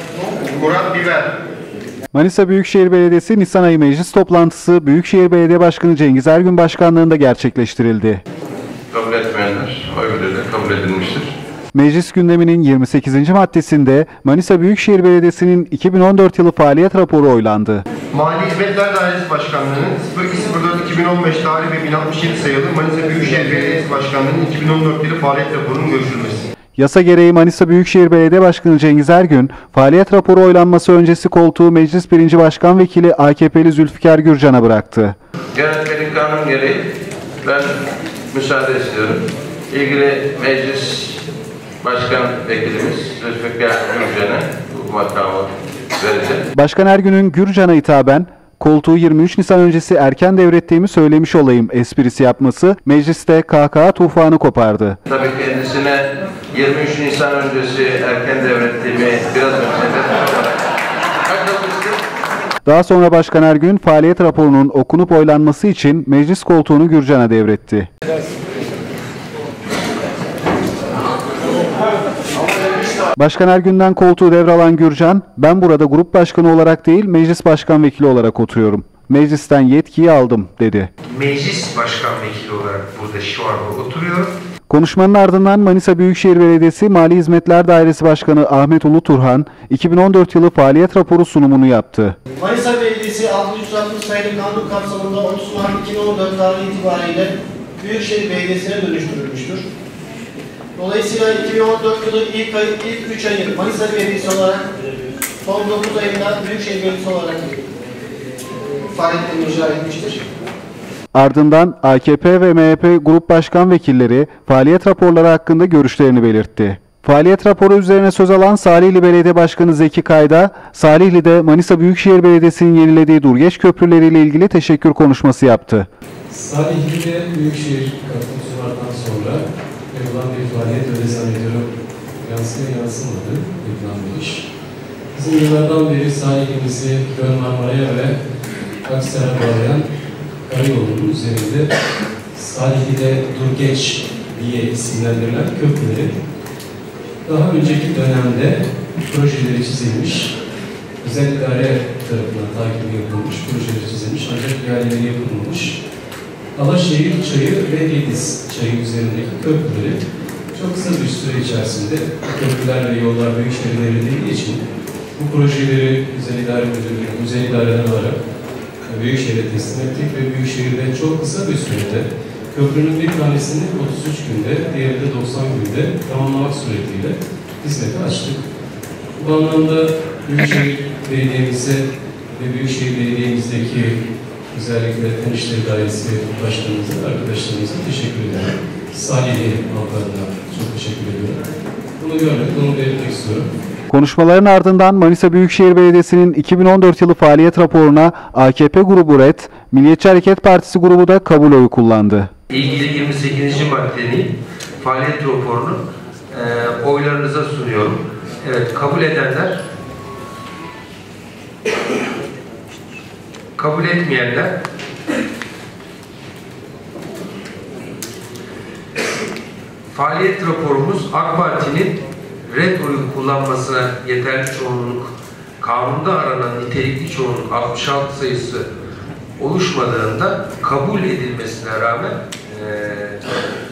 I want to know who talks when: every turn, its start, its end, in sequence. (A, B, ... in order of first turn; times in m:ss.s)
0:00.4-0:01.2 A
0:00.5-0:01.3 B
0:02.1-0:08.2 C
0:08.9-0:11.3 D
0:11.7-0:17.8 C
0:18.1-0:26.5 B
0:26.8-0:35.2 C
0:35.5-0:36.9 D
0:37.4-0:37.8 D
0:38.3-0:41.2 D
0:41.8-0:46.5 D
0:46.6-0:55.0 C
0:55.1-1:00.6 D
1:01.3-1:02.0 D
1:02.6-1:07.9 C
1:13.2-1:20.9 C
1:21.1-1:24.3 E
1:24.7-1:32.2 C
1:32.4-1:39.6 A
1:40.8-1:44.7 A
1:45.4-1:47.6 A
1:48.9-1:50.2 A
1:51.1-2:05.9 C
2:06.3-2:14.5 F
2:15.1-2:18.2 F
2:18.8-2:19.9 F
2:20.5-2:21.7 F
2:22.3-2:26.2 F
2:27.2-2:30.4 F
2:31.0-2:35.8 F
2:36.6-2:40.0 F
2:40.5-2:44.6 F
2:45.2-2:48.2 F
2:48.9-2:58.4 F
2:59.2-3:04.0 F
3:04.5-3:11.4 F
3:12.0-3:13.5 F
3:13.9-3:22.3 C
3:22.5-3:29.6 E
3:33.6-3:34.6 E
3:39.9-3:48.7 E
3:49.4-3:53.3 E